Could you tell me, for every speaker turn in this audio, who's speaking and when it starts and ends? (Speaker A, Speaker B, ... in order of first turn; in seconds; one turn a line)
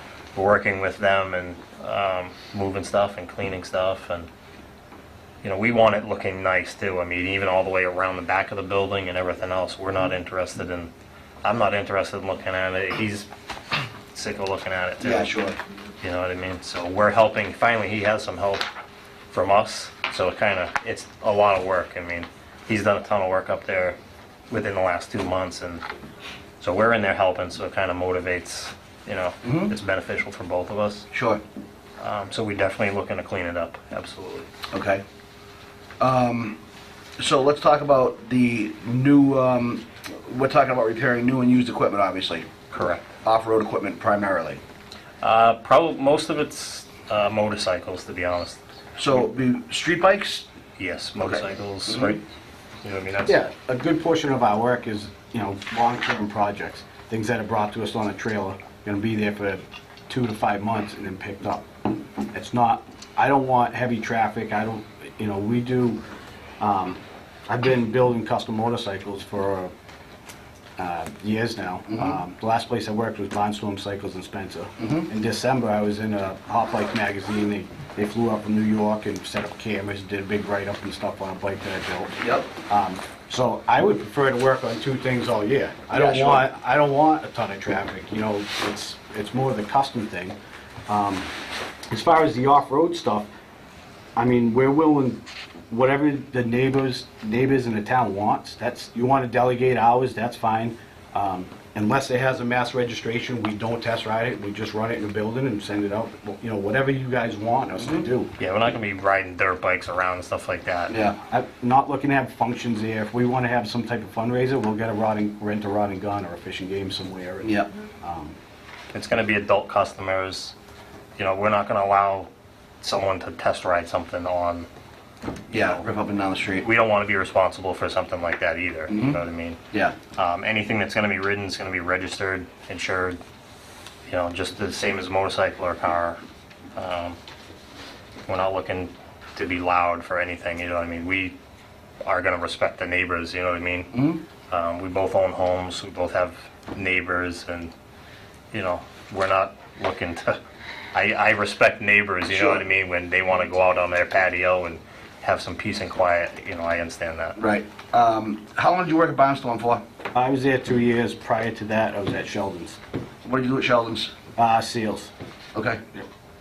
Speaker A: 0.3-4.3
Speaker A: 5.4-10.9
Speaker A: 11.4-13.3
Speaker A: 14.1-15.3
Speaker B: 15.0-15.6
Speaker A: 16.0-18.7
Speaker A: 19.3-24.0
Speaker A: 24.5-25.8
Speaker A: 26.6-31.1
Speaker B: 29.4-29.7
Speaker B: 31.1-31.4
Speaker A: 32.0-34.5
Speaker B: 34.7-35.0
Speaker B: 36.0-36.6
Speaker B: 37.2-42.6
Speaker A: 42.7-43.1
Speaker B: 43.2-44.6
Speaker A: 45.2-48.6
Speaker B: 49.0-50.5
Speaker A: 50.8-52.2
Speaker B: 51.2-52.2
Speaker A: 52.8-53.4
Speaker C: 53.2-66.0
Speaker C: 66.6-69.7
Speaker C: 70.8-90.4
Speaker B: 71.9-72.2
Speaker B: 74.8-75.1
Speaker B: 82.2-82.5
Speaker B: 85.9-86.5
Speaker C: 90.9-91.3
Speaker C: 91.9-93.3
Speaker C: 94.2-108.3
Speaker A: 108.4-111.0
Speaker B: 110.9-111.2
Speaker C: 111.3-118.3
Speaker B: 117.4-117.7
Speaker A: 118.9-120.5
Speaker A: 121.2-122.3
Speaker A: 122.8-124.7
Speaker A: 125.5-125.8
Speaker B: 125.5-126.7
Speaker A: 126.6-129.6
Speaker B: 128.9-129.2
Speaker A: 130.2-133.2
Speaker A: 134.1-136.2
Speaker A: 136.8-137.2
Speaker A: 138.3-141.4
Speaker A: 142.0-147.7
Speaker B: 143.9-144.2
Speaker A: 148.5-150.4
Speaker A: 150.9-157.4
Speaker B: 152.3-152.6
Speaker B: 157.4-159.8
Speaker C: 160.1-162.8
Speaker B: 163.2-164.1
Speaker C: 164.4-165.1
Speaker B: 165.6-165.8